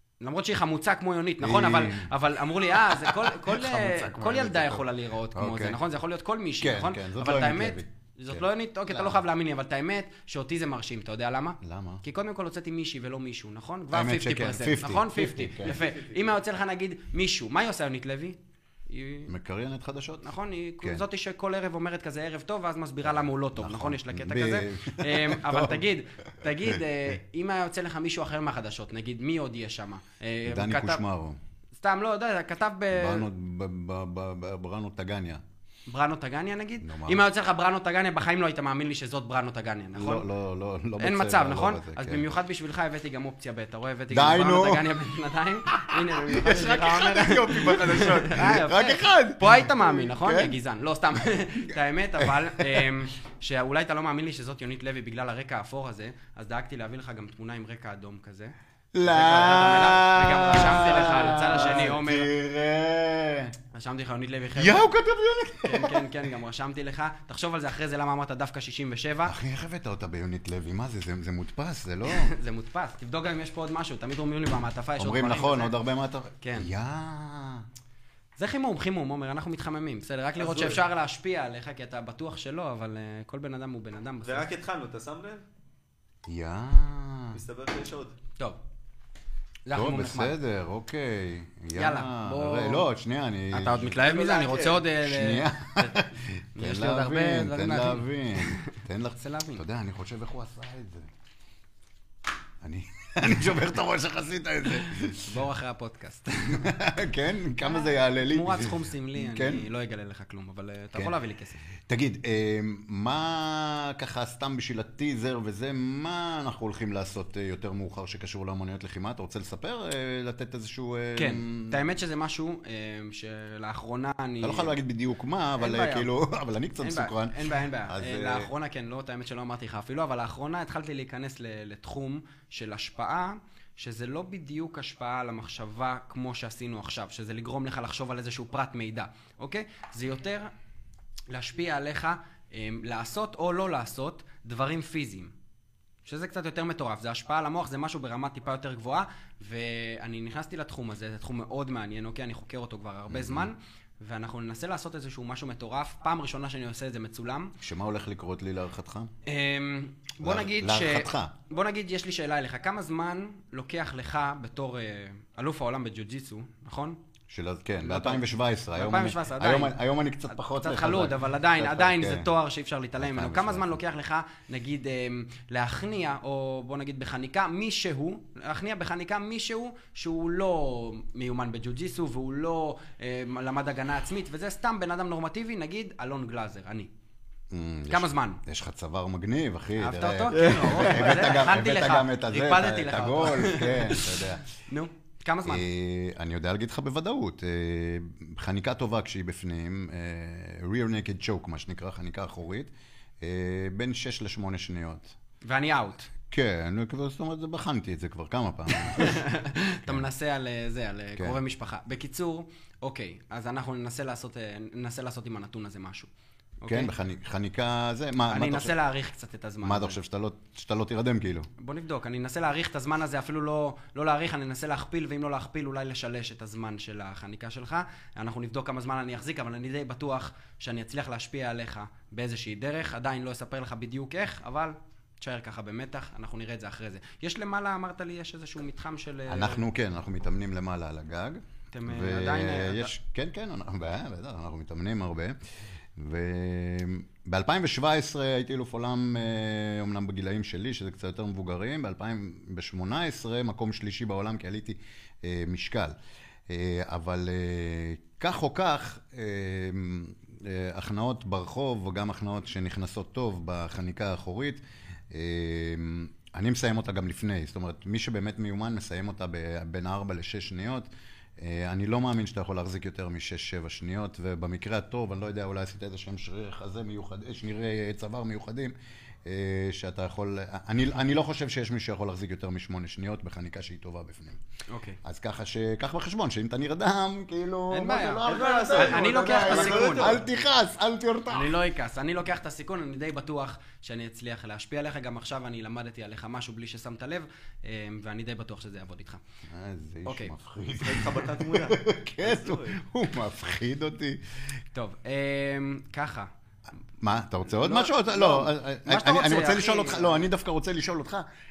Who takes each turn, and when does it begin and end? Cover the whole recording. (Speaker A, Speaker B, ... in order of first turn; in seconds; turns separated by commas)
Speaker A: 0.2-18.4, Speaker B: 1.4-5.8, Speaker B: 6.6-9.2, Speaker B: 11.6-12.0, Speaker B: 13.9-15.8, Speaker C: 15.6-16.1, Speaker A: 18.9-19.3, Speaker B: 19.3-21.0, Speaker A: 20.2-31.0, Speaker B: 23.0-25.9, Speaker B: 26.4-26.8, Speaker B: 30.4-31.4, Speaker A: 31.8-33.3, Speaker B: 32.9-35.4, Speaker A: 35.9-40.3, Speaker B: 36.8-37.2, Speaker B: 39.9-42.3, Speaker A: 41.0-62.3, Speaker B: 44.1-44.9, Speaker B: 45.7-50.5, Speaker B: 51.7-52.9, Speaker B: 58.9-63.5, Speaker A: 63.7-64.9, Speaker B: 64.5-66.1, Speaker A: 65.6-69.3, Speaker B: 69.2-72.3, Speaker A: 72.0-75.8, Speaker B: 75.0-77.7, Speaker A: 76.4-76.7, Speaker A: 78.4-84.5, Speaker C: 80.4-80.8, Speaker C: 84.2-85.4, Speaker B: 86.3-87.4, Speaker C: 87.3-88.1, Speaker A: 89.7-90.3, Speaker B: 89.7-94.0, Speaker A: 91.7-92.8, Speaker A: 93.5-99.6, Speaker C: 94.0-94.8, Speaker B: 95.0-101.1, Speaker B: 102.6-105.4, Speaker A: 105.2-106.7, Speaker B: 106.5-109.7, Speaker A: 107.6-111.6, Speaker B: 111.8-121.8, Speaker A: 121.2-124.7, Speaker B: 124.4-128.5, Speaker A: 125.6-126.1, Speaker A: 126.8-140.5, Speaker A: 141.3-145.3, Speaker A: 146.0-157.5, Speaker B: 153.1-153.5, Speaker B: 157.6-159.1, Speaker A: 159.2-167.0, Speaker B: 160.2-161.3, Speaker B: 167.3-172.3, Speaker A: 167.8-169.8, Speaker A: 170.3-186.9, Speaker B: 173.0-173.8, Speaker B: 187.5-194.4, Speaker A: 187.9-188.4, Speaker A: 189.8-195.6, Speaker C: 190.3-191.3, Speaker B: 195.4-205.1, Speaker A: 205.4-206.1, Speaker B: 206.3-209.2, Speaker A: 208.8-216.1, Speaker A: 216.6-216.9, Speaker B: 216.7-218.7, Speaker A: 218.3-220.0, Speaker B: 219.6-221.5, Speaker A: 221.6-239.6, Speaker B: 239.3-245.4, Speaker A: 241.7-242.9, Speaker B: 245.9-255.9, Speaker B: 256.5-284.4, Speaker A: 284.7-285.0, Speaker B: 285.0-291.6, Speaker A: 287.7-290.2, Speaker C: 288.2-290.2, Speaker A: 291.3-299.2, Speaker B: 299.5-304.6, Speaker A: 300.1-300.3, Speaker C: 300.8-302.8, Speaker A: 304.7-306.3, Speaker B: 307.0-311.2, Speaker A: 307.5-310.3